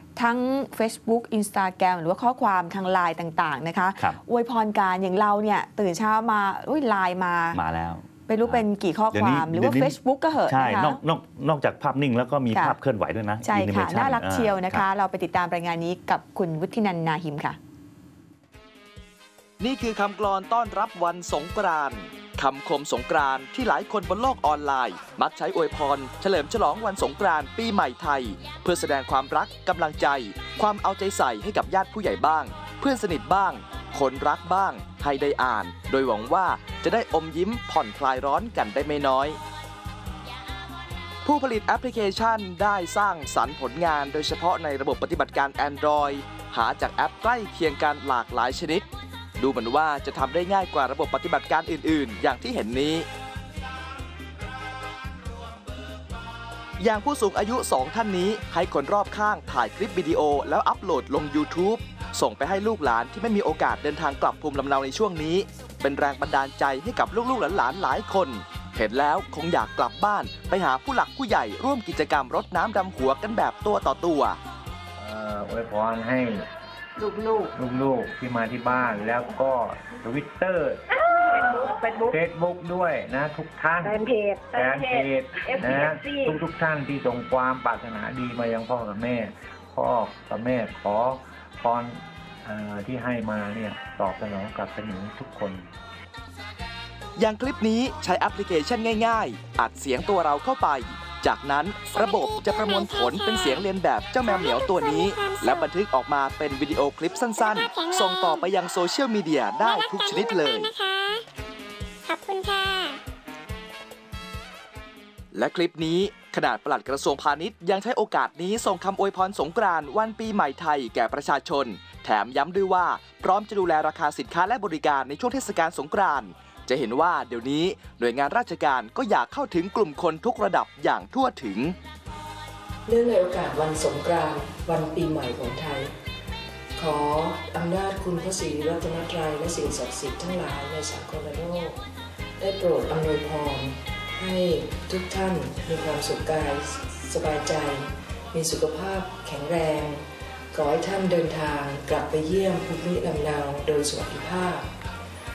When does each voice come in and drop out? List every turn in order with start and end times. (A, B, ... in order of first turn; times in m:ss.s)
0:00.2-0:07.6 A
0:07.5-0:14.8 B
0:08.3-0:11.0 A
0:13.4-0:17.6 A
0:19.6-0:39.4 C
0:41.2-0:48.9 C
0:49.4-0:53.1 C
0:56.8-1:14.4 C
1:15.0-1:16.5 D
1:17.0-1:17.5 E
1:17.5-1:24.0 D
1:21.1-1:22.2 E
1:23.8-1:26.4 E
1:24.5-1:35.6 D
1:37.2-1:50.7 C
1:41.9-1:43.6 F
1:44.2-1:45.7 F
1:47.4-1:48.5 F
1:49.6-1:51.2 F
1:52.1-1:53.0 F
1:55.3-2:11.8 C
2:12.9-2:15.9 G
2:16.8-2:21.8 G
2:22.4-2:34.7 G